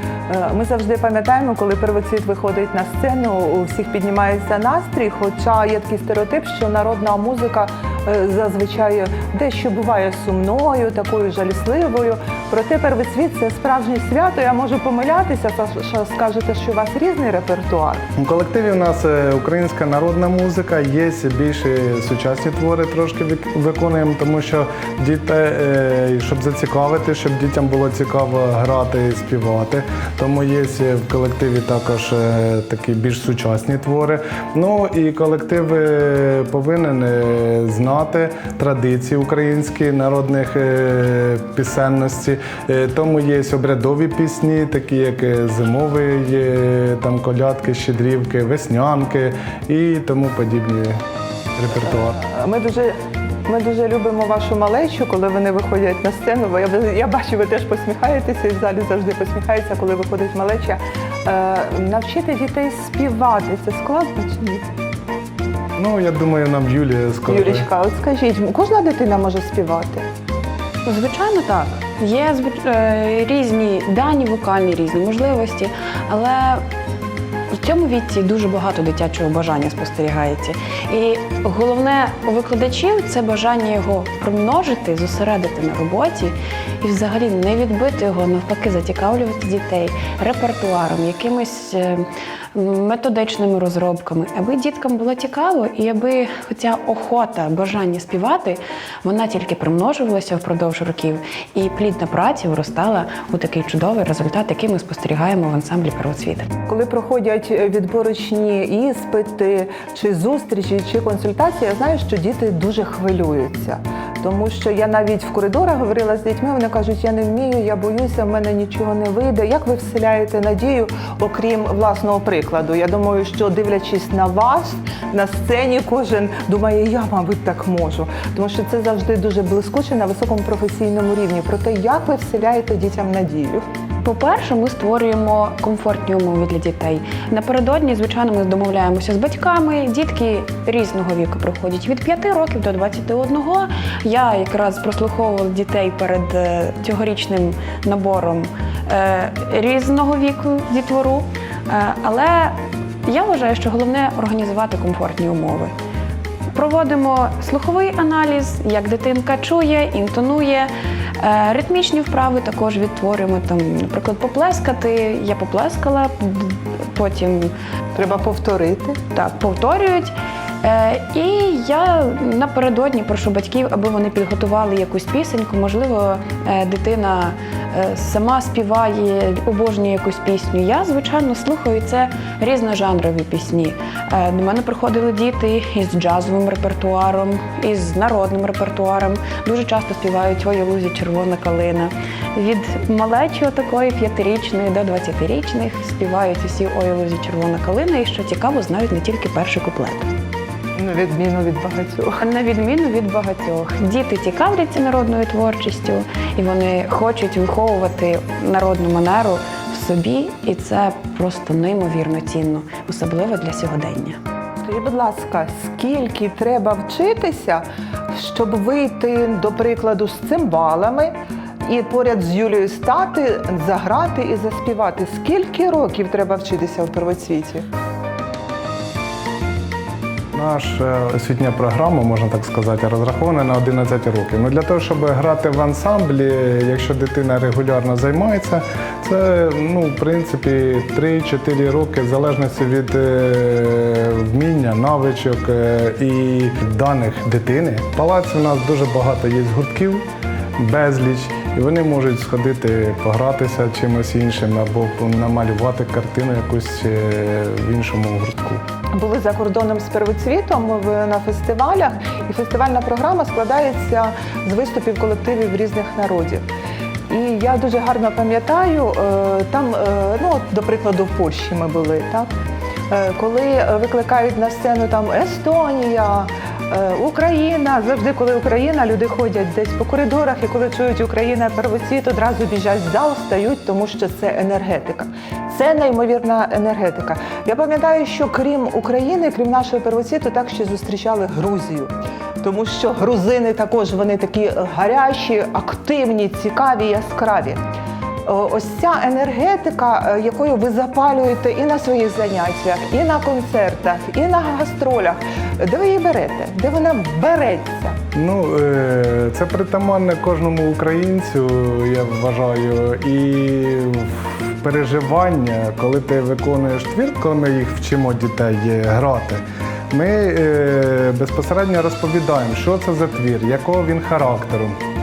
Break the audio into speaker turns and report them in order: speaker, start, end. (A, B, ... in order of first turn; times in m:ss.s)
0:00.3-0:18.1 A
0:18.2-0:51.0 B
0:51.6-0:52.2 B
0:51.9-1:04.7 A
1:05.8-1:07.7 B
1:07.3-1:10.1 A
1:10.8-1:16.6 C
1:17.5-1:46.5 C
1:46.7-2:13.7 A
2:14.0-2:35.7 C
2:36.5-2:47.5 C
2:48.0-2:49.0 A
2:49.1-3:20.1 C
3:20.8-3:22.2 A
3:22.2-3:34.2 C
3:34.6-3:41.1 A
3:41.6-3:47.7 A
3:50.4-4:10.0 B
4:10.6-4:18.6 B
4:18.9-4:26.5 A
4:27.1-4:32.3 A
4:32.9-4:57.6 A
4:58.3-5:08.0 A
5:08.1-5:24.8 B